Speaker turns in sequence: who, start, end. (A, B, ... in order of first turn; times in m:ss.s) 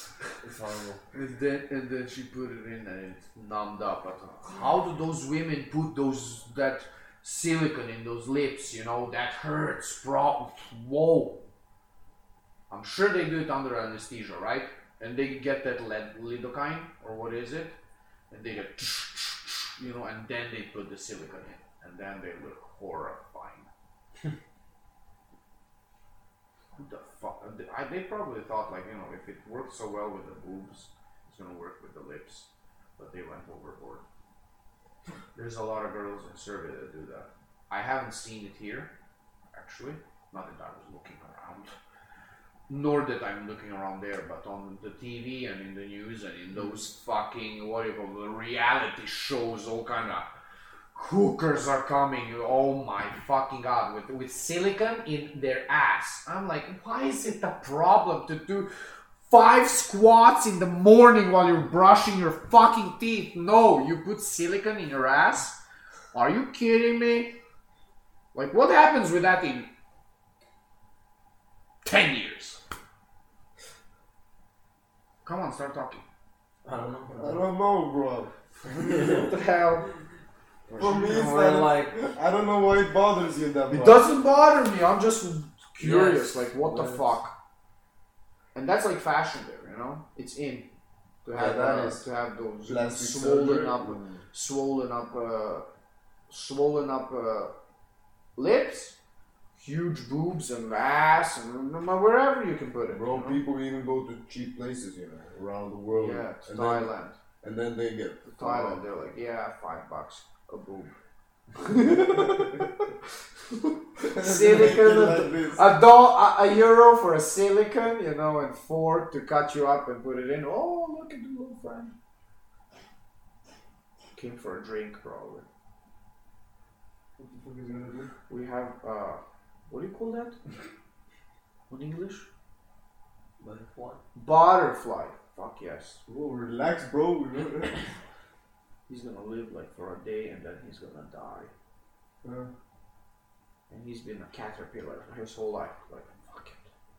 0:00.4-0:01.0 A
0:01.1-0:11.4 B
0:12.7-0:17.8 B
0:18.3-0:23.7 B
0:26.8-0:34.0 B
0:35.3-0:38.9 B
0:39.5-0:41.7 B
0:42.7-0:50.3 B
0:50.9-0:58.7 B
0:59.2-1:05.6 B
1:06.1-1:07.3 B
1:08.3-1:09.7 B
1:11.8-1:12.6 B
1:15.2-1:16.0 B
1:16.6-1:17.4 C
1:17.1-1:18.3 A
1:18.8-1:19.3 C
1:18.8-1:19.9 B
1:20.7-1:21.0 B
1:20.7-1:24.0 A
1:20.8-1:21.9 C
1:23.7-1:27.3 B
1:25.8-1:27.2 C
1:28.5-1:30.7 B
1:31.2-1:35.7 B
1:31.3-1:32.0 A
1:32.6-1:34.2 A
1:36.3-1:37.5 B
1:38.4-1:39.0 B
1:39.5-1:43.4 B
1:42.9-1:46.9 A
1:45.9-1:47.2 B
1:47.4-1:48.8 A
1:48.3-1:50.9 B
1:51.5-1:52.9 B
1:53.5-2:01.9 B
1:54.0-1:55.7 A
2:04.1-2:05.4 B
2:07.2-2:08.1 A
2:08.3-2:10.4 B
2:11.7-2:12.3 B
2:13.4-2:14.0 C
2:14.1-2:16.0 B
2:16.1-2:17.8 A
2:18.9-2:21.5 B
2:22.2-2:22.5 A
2:23.7-2:26.7 B